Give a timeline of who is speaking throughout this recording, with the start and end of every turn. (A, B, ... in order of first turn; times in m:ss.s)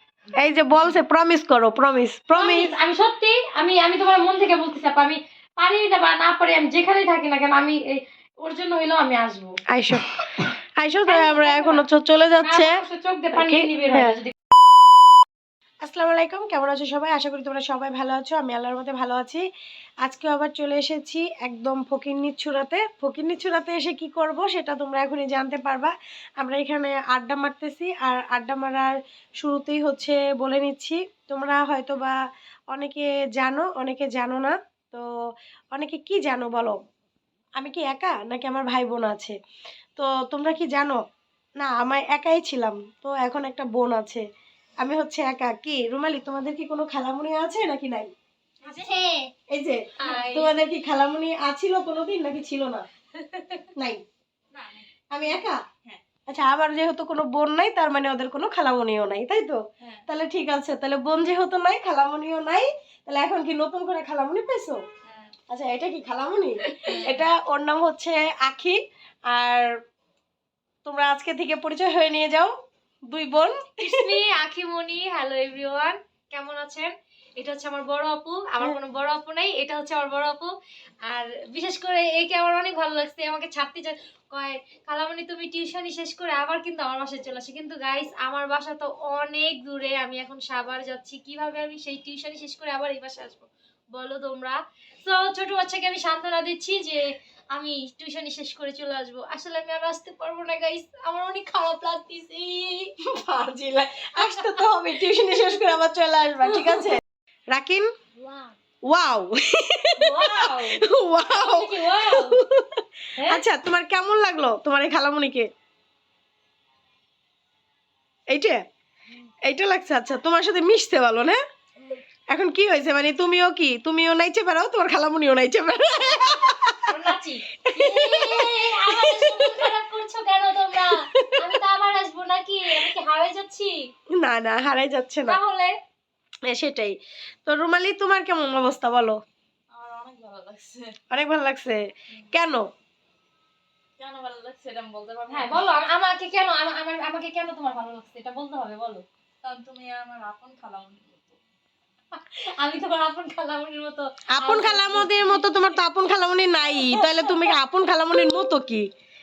0:00.4-0:02.7 A
0:00.7-0:01.0 B
0:02.3-0:09.6 B
0:09.7-0:12.8 A
0:11.1-0:11.8 B
0:12.4-0:14.3 B
0:13.3-0:14.2 A
0:15.8-0:19.4 A
0:20.0-0:32.2 A
0:32.7-0:35.0 A
0:35.7-0:36.8 A
0:37.6-0:39.3 A
0:40.0-0:41.0 A
0:41.6-0:44.2 A
0:44.8-0:48.1 A
0:48.6-0:49.3 B
0:49.5-0:52.8 A
0:50.0-0:50.6 B
0:53.2-0:53.7 B
0:53.8-0:54.0 A
0:54.5-0:54.8 C
0:55.1-0:55.6 A
0:56.3-1:04.8 A
1:05.0-1:05.3 C
1:05.5-1:09.7 A
1:06.6-1:07.0 B
1:06.8-1:07.2 C
1:10.8-1:12.5 A
1:13.1-1:14.1 A
1:13.8-1:20.5 B
1:21.0-1:42.9 B
1:43.1-1:47.0 A
1:44.2-1:44.7 B
1:46.4-1:46.9 B
1:47.5-1:47.8 A
1:48.2-1:48.5 B
1:48.9-1:55.5 A
1:50.0-1:52.4 B
1:53.2-1:53.4 B
1:58.3-1:58.6 A
1:59.4-2:01.4 A
2:02.3-2:06.9 A
2:06.0-2:13.9 B
2:07.6-2:09.7 A
2:10.9-2:11.5 A
2:14.2-2:15.4 A
2:15.3-2:15.8 B
2:16.5-2:19.2 A
2:19.7-2:20.9 C
2:21.1-2:22.6 A
2:24.0-2:25.7 C
2:25.3-2:29.0 B
2:29.4-2:31.4 C
2:32.2-2:35.8 B
2:34.3-2:38.8 A
2:36.7-2:37.6 B
2:38.1-2:38.5 B